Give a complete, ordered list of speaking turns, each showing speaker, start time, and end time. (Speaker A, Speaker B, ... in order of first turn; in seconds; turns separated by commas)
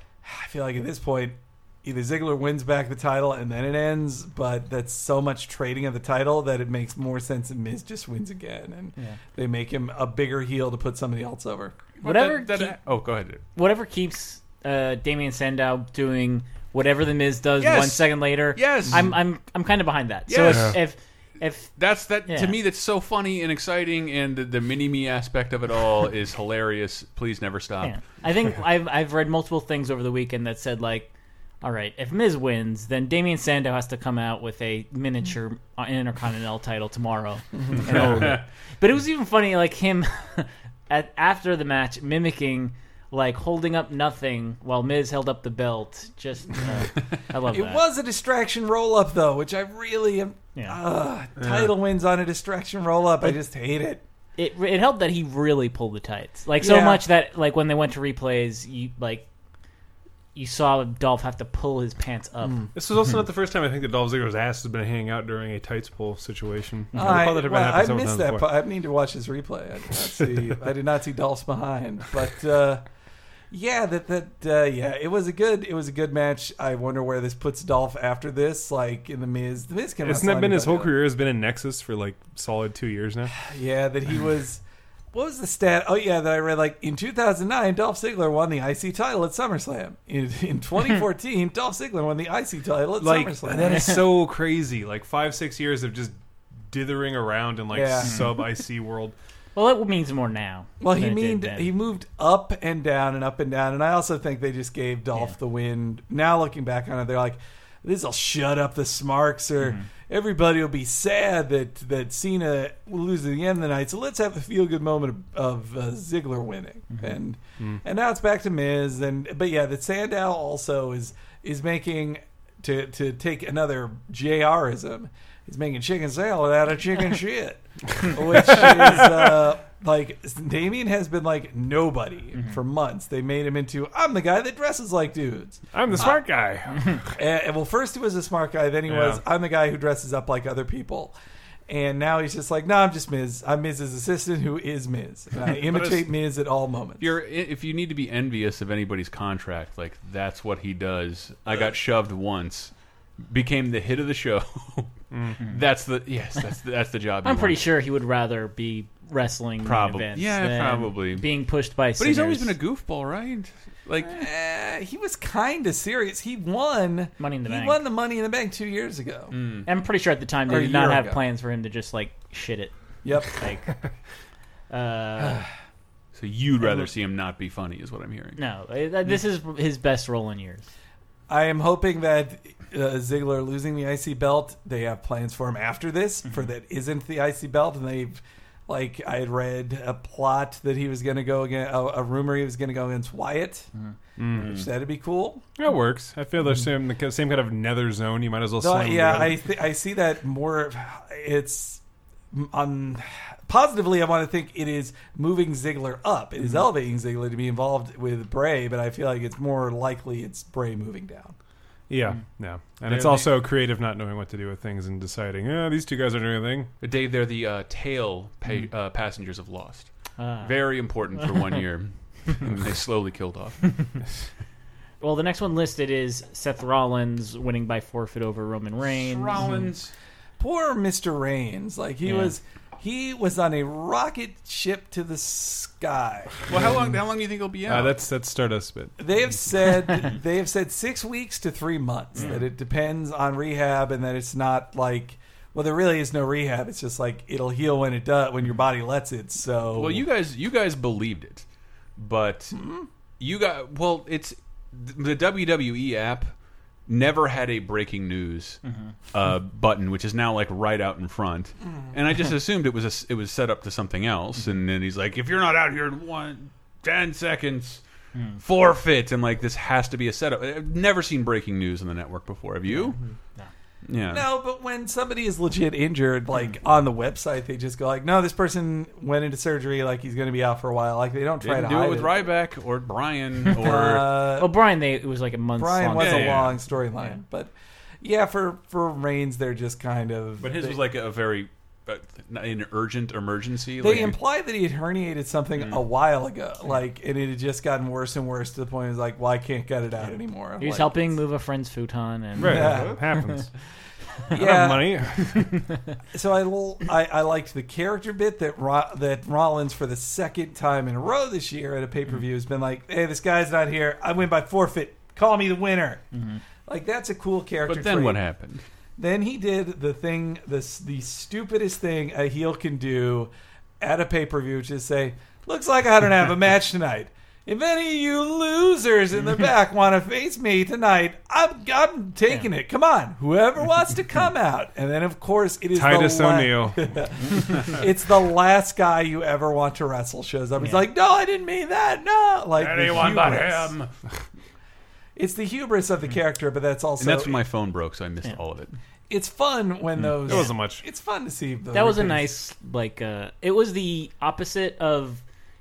Speaker A: 0.2-11.8, Speaker B: 12.0-13.4, Speaker C: 12.0-12.8, Speaker C: 13.5-21.8, Speaker B: 17.6-19.1, Speaker B: 20.3-20.8, Speaker D: 20.4-20.8, Speaker B: 21.8-27.9, Speaker C: 22.2-22.6, Speaker C: 27.8-31.1, Speaker C: 31.6-47.8, Speaker A: 37.5-38.0, Speaker B: 37.8-38.4, Speaker A: 47.5-54.0, Speaker D: 51.4-51.7, Speaker C: 54.4-59.2, Speaker A: 56.6-57.0, Speaker C: 60.4-62.6, Speaker A: 62.4-62.7, Speaker D: 62.7-68.4, Speaker A: 66.9-72.8, Speaker A: 73.5-80.9, Speaker D: 80.0-83.4, Speaker A: 83.4-84.6, Speaker A: 85.1-93.9, Speaker D: 93.0-96.1, Speaker D: 96.7-99.1, Speaker A: 97.7-98.2, Speaker C: 98.0-98.3, Speaker C: 99.6-101.7, Speaker A: 100.8-136.2, Speaker C: 109.6-109.9, Speaker D: 135.7-137.0, Speaker A: 137.2-141.1, Speaker D: 138.9-139.2, Speaker A: 141.7-147.1, Speaker B: 147.0-157.6, Speaker D: 155.1-155.4, Speaker C: 157.2-162.6, Speaker B: 159.6-161.3, Speaker B: 162.0-164.1, Speaker A: 164.0-169.3, Speaker C: 167.2-167.8, Speaker B: 169.3-169.7, Speaker C: 169.7-173.7, Speaker A: 170.5-171.2, Speaker A: 173.0-173.3, Speaker C: 174.7-175.4, Speaker A: 175.2-175.5, Speaker B: 176.1-178.4, Speaker C: 178.4-180.7, Speaker A: 181.3-193.7, Speaker D: 194.2-194.5, Speaker A: 194.3-195.5, Speaker D: 195.6-199.4, Speaker A: 198.6-201.8, Speaker A: 202.3-211.3, Speaker D: 211.9-216.7, Speaker B: 212.9-213.3, Speaker B: 216.8-223.9, Speaker C: 220.2-220.5, Speaker C: 225.0-229.4, Speaker B: 228.8-229.9, Speaker A: 230.4-236.6, Speaker C: 232.1-232.3, Speaker B: 236.5-238.0, Speaker D: 237.7-238.9, Speaker A: 239.0-250.1, Speaker B: 249.7-251.4, Speaker B: 252.0-252.6, Speaker A: 252.6-252.9, Speaker B: 253.2-256.3, Speaker B: 256.9-267.8, Speaker C: 258.7-258.9, Speaker B: 268.4-273.0, Speaker B: 273.9-274.2, Speaker A: 274.1-282.2, Speaker B: 281.4-284.2, Speaker A: 283.6-284.5, Speaker C: 284.3-286.4, Speaker A: 285.6-290.8, Speaker B: 286.0-286.6, Speaker B: 290.4-294.2, Speaker A: 293.8-301.2, Speaker C: 300.6-303.5, Speaker D: 302.4-303.5, Speaker A: 302.4-303.0, Speaker A: 304.3-305.1, Speaker D: 304.3-305.5, Speaker C: 305.3-305.7, Speaker A: 306.1-316.1, Speaker C: 316.1-316.4, Speaker A: 316.7-318.2, Speaker B: 317.6-318.6, Speaker A: 319.0-343.7, Speaker D: 335.7-336.9, Speaker C: 340.6-340.9, Speaker B: 342.6-343.9, Speaker A: 345.1-347.4, Speaker B: 347.0-348.7, Speaker A: 349.1-352.4, Speaker D: 350.0-350.8, Speaker C: 351.7-355.2